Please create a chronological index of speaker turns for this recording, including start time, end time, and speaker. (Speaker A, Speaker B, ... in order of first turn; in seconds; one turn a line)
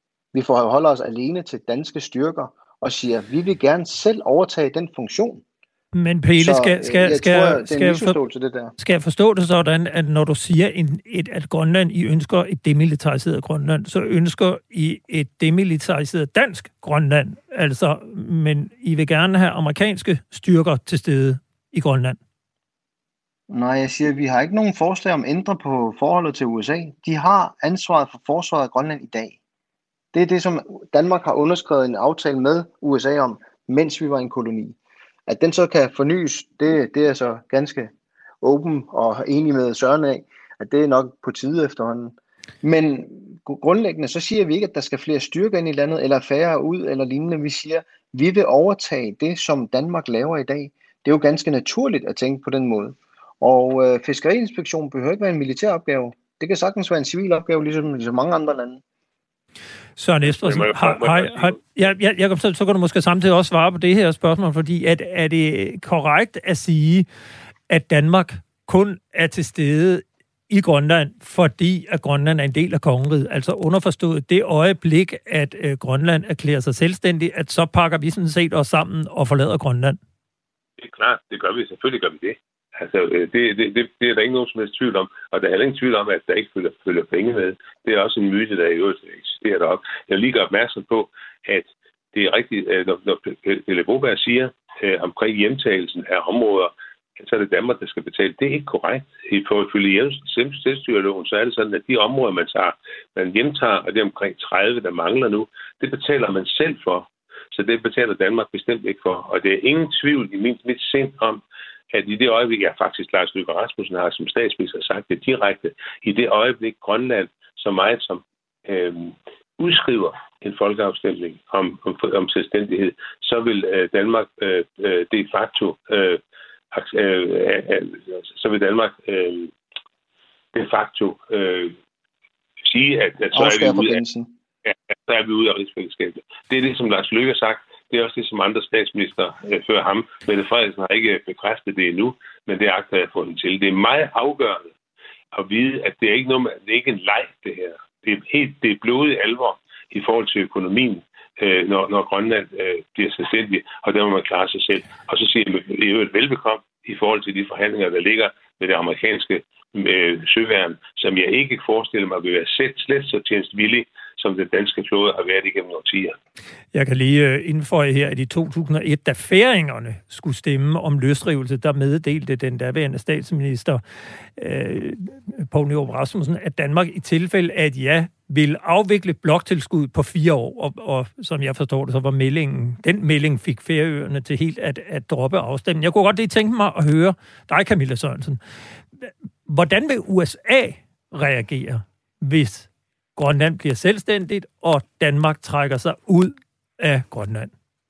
Speaker A: 0.3-5.4
Speaker B: 6.0-8.2
Speaker A: 6.4-8.7
Speaker B: 8.8-22.2
Speaker A: 23.5-29.4
Speaker A: 30.1-34.8
Speaker A: 35.3-58.8
Speaker B: 60.0-67.1
Speaker C: 60.2-61.6
Speaker B: 67.7-80.0
Speaker C: 80.8-126.2
Speaker C: 126.7-129.5
Speaker C: 130.5-131.8
Speaker C: 132.6-134.0
Speaker A: 133.3-134.3
Speaker C: 134.7-144.7
Speaker C: 145.3-166.2
Speaker B: 166.7-173.8
Speaker B: 174.4-188.4
Speaker B: 189.0-197.5